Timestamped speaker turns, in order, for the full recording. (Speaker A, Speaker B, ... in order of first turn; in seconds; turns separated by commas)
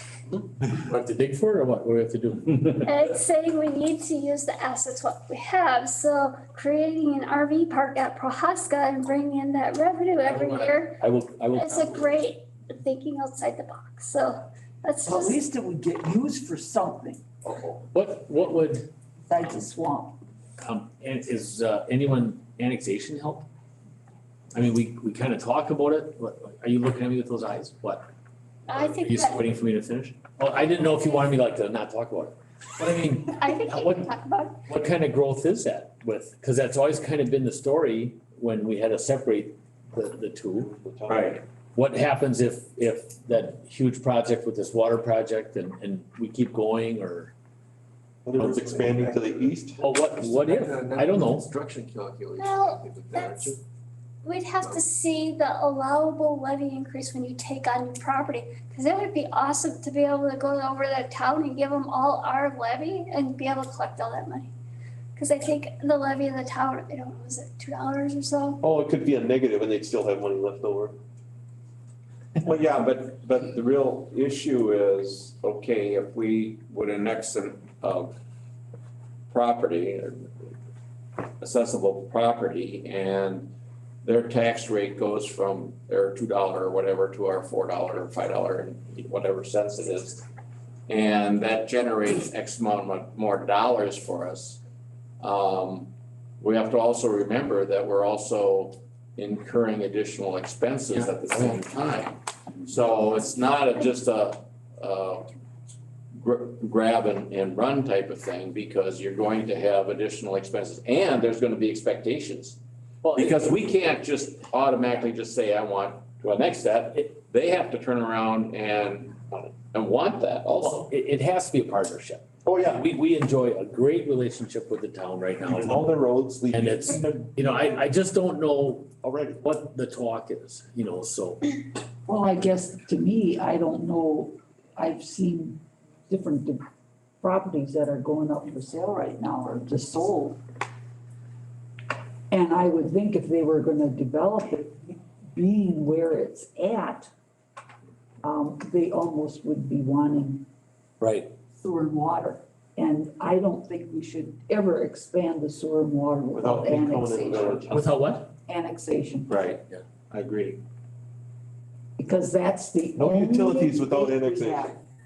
Speaker A: 0.6-3.1, Speaker B: 2.8-11.0, Speaker A: 10.2-12.2, Speaker B: 11.5-15.4, Speaker C: 15.0-17.2, Speaker A: 17.4-18.9, Speaker C: 19.3-20.1, Speaker A: 20.6-23.5, Speaker A: 24.5-28.1, Speaker B: 28.7-29.4, Speaker A: 28.7-34.1, Speaker B: 30.7-31.2, Speaker B: 33.3-34.6, Speaker A: 34.6-40.7, Speaker D: 40.6-41.4, Speaker E: 41.1-41.4, Speaker A: 41.7-47.3, Speaker D: 48.2-49.8, Speaker A: 48.4-49.1, Speaker F: 48.6-53.6, Speaker A: 49.8-51.5, Speaker B: 52.4-53.5, Speaker B: 54.2-64.5, Speaker B: 65.2-68.6, Speaker D: 68.6-71.0, Speaker E: 72.4-78.1, Speaker E: 79.3-80.5, Speaker E: 81.4-83.5, Speaker E: 84.0-90.2, Speaker E: 90.9-94.6, Speaker E: 95.2-105.3, Speaker E: 106.1-112.6, Speaker A: 113.0-113.5, Speaker E: 113.1-120.8, Speaker A: 120.6-125.9, Speaker D: 122.5-122.7, Speaker D: 125.4-127.3, Speaker A: 126.5-131.5, Speaker D: 129.0-129.4, Speaker C: 132.1-136.6, Speaker C: 137.2-140.4, Speaker C: 142.3-147.1, Speaker C: 148.2-150.4, Speaker A: 151.0-151.3, Speaker C: 151.6-157.7, Speaker D: 156.3-157.8, Speaker A: 157.7-158.3, Speaker C: 158.4-159.5, Speaker C: 162.0-164.8, Speaker D: 163.0-164.7